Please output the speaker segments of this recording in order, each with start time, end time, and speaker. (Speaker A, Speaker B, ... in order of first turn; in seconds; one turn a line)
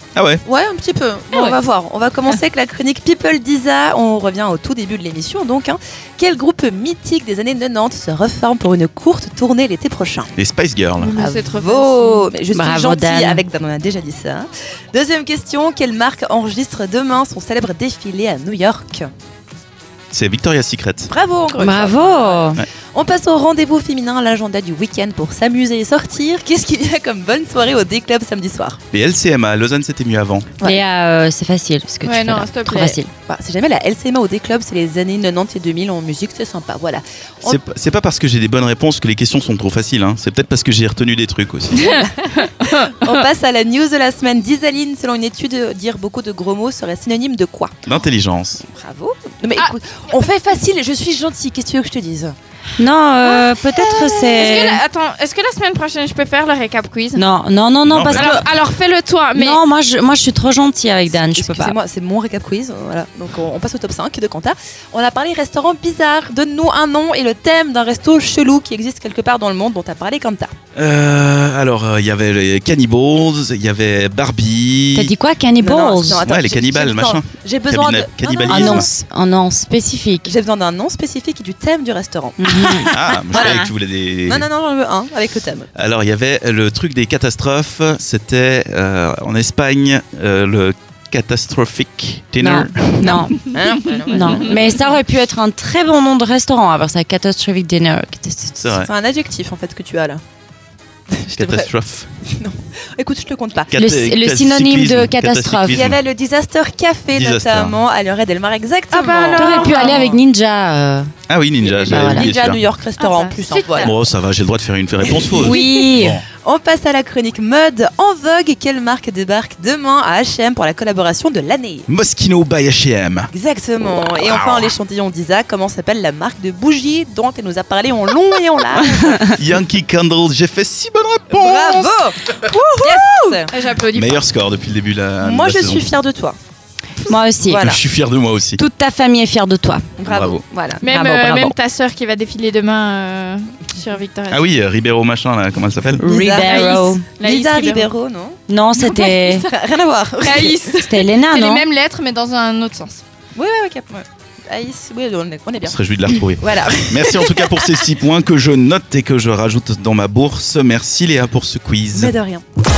Speaker A: 0.1-0.4
Speaker B: 0.4-10.3
Speaker A: 10.4-11.1
Speaker C: 11.0-12.3
Speaker B: 11.2-19.1
Speaker D: 12.5-13.4
Speaker A: 20.1-21.1
Speaker B: 21.1-28.8
Speaker D: 21.6-22.6
Speaker A: 28.9-30.5
Speaker D: 30.6-33.1
Speaker C: 32.0-33.0
Speaker B: 33.3-37.6
Speaker A: 37.5-42.0
Speaker B: 41.8-47.8
Speaker C: 41.8-42.5
Speaker A: 47.9-48.6
Speaker B: 48.6-52.4
Speaker D: 52.8-54.8
Speaker C: 53.2-57.2
Speaker D: 57.1-58.4
Speaker A: 57.9-58.3
Speaker C: 58.1-59.6
Speaker D: 59.3-61.8
Speaker B: 61.1-70.5
Speaker A: 70.8-75.1
Speaker D: 75.0-76.2
Speaker B: 75.6-78.9
Speaker A: 76.1-78.9
Speaker D: 78.5-80.3
Speaker B: 80.2-82.5
Speaker D: 82.4-83.7
Speaker A: 82.9-84.5
Speaker B: 83.3-83.6
Speaker B: 84.2-85.7
Speaker A: 85.8-93.3
Speaker D: 92.4-93.5
Speaker B: 93.1-94.8
Speaker D: 94.0-98.6
Speaker A: 98.6-98.9
Speaker B: 98.7-100.2
Speaker B: 101.1-101.7
Speaker A: 101.3-102.1
Speaker B: 102.2-103.8
Speaker A: 103.7-106.0
Speaker D: 103.7-105.9
Speaker B: 105.7-110.2
Speaker A: 107.1-107.8
Speaker C: 108.9-110.1
Speaker D: 109.3-111.1
Speaker A: 111.3-112.6
Speaker B: 111.6-113.9
Speaker D: 111.9-112.3
Speaker C: 113.0-113.9
Speaker A: 113.8-116.2
Speaker B: 115.0-121.9
Speaker D: 115.4-116.2
Speaker A: 121.9-123.3
Speaker B: 123.3-129.4
Speaker A: 124.1-124.7
Speaker A: 129.3-133.4
Speaker B: 131.3-133.5
Speaker C: 133.5-134.2
Speaker A: 133.9-135.9
Speaker B: 135.2-136.4
Speaker D: 137.1-137.7
Speaker B: 137.4-137.8
Speaker A: 137.5-138.6
Speaker D: 138.6-139.9
Speaker B: 140.0-140.9
Speaker A: 140.0-140.4
Speaker C: 140.8-144.5
Speaker D: 140.8-141.6
Speaker A: 144.3-146.0
Speaker D: 146.0-147.1
Speaker B: 146.0-148.4
Speaker C: 146.4-147.9
Speaker D: 148.5-149.5
Speaker C: 148.8-149.2
Speaker B: 149.3-150.8
Speaker C: 150.2-153.0
Speaker D: 150.8-151.7
Speaker B: 153.3-157.9
Speaker A: 155.6-162.1
Speaker B: 161.9-162.4